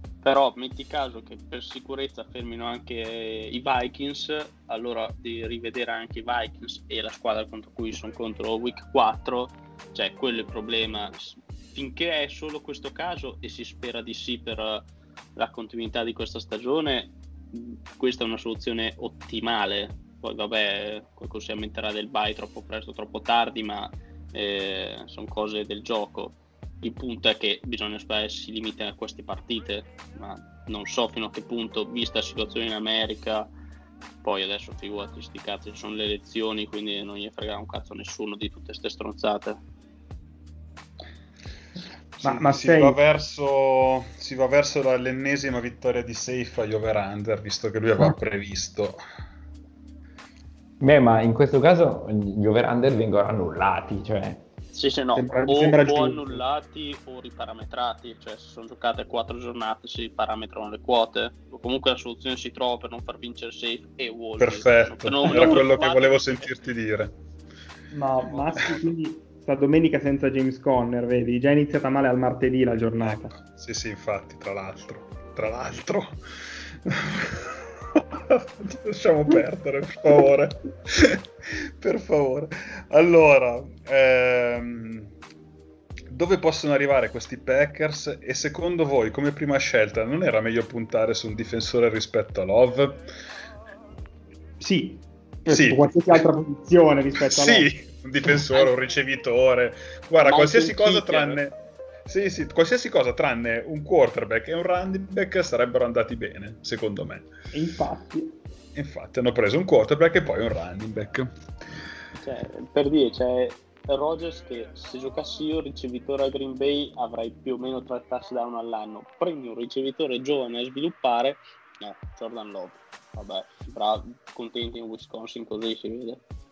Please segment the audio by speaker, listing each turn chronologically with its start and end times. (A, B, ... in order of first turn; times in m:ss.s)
0:00.2-0:33.5 A
0:34.2-0:39.6 A
0:42.2-0:49.0 B
0:42.2-0:43.0 C
0:50.8-0:54.4 D
0:54.7-1:06.5 A
0:55.1-0:56.4 C
1:04.4-1:07.1 B
1:05.3-1:05.6 C
1:07.9-1:13.3 C
1:08.3-1:08.9 B
1:13.0-1:16.2 B
1:16.8-1:25.1 B
1:26.1-1:33.0 B
1:34.6-1:37.7 C
1:35.5-1:36.2 B
1:37.2-1:47.3 B
1:40.2-1:41.4 A
1:47.5-1:48.4 C
1:48.7-1:51.3 B
1:52.2-2:06.2 A